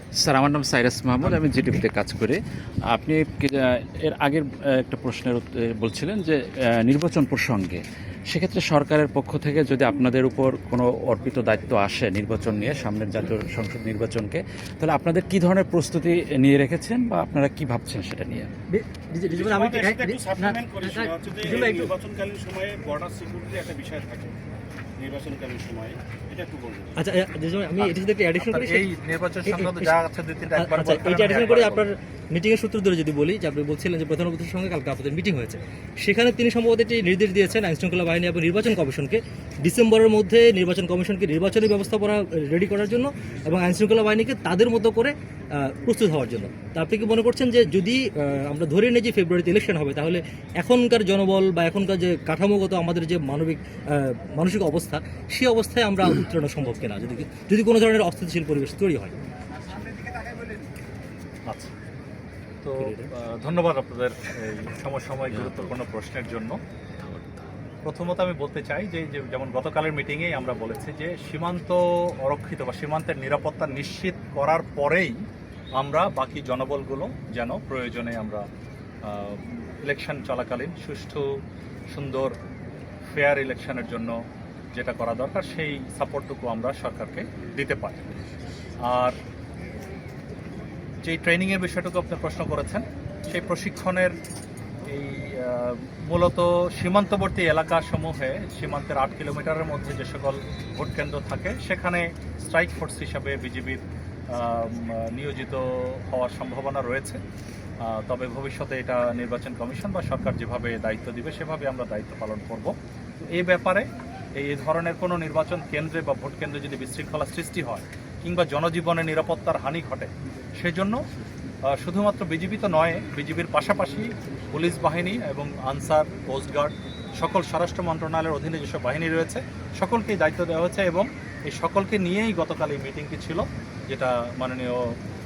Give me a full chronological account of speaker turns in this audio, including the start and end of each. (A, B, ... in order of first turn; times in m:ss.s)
0:00.2-0:18.5 A
0:18.7-0:21.9 B
0:19.3-0:24.4 C
0:25.0-0:27.0 C
0:27.0-0:28.9 B
0:27.8-0:31.8 D
0:29.4-0:29.9 B
0:30.6-0:59.2 B
1:02.6-1:06.6 D
1:02.8-1:03.1 B
1:05.3-1:05.6 A
1:07.0-1:07.4 A
1:07.8-1:15.2 D
1:15.8-1:18.4 D
1:19.1-1:21.3 D
1:21.9-1:22.3 D
1:23.1-1:24.2 D
1:24.8-1:28.3 D
1:28.9-1:29.2 D
1:31.0-1:34.2 D
1:34.8-1:47.2 D
1:47.8-1:53.8 D
1:54.4-2:01.0 D
2:01.7-2:14.8 D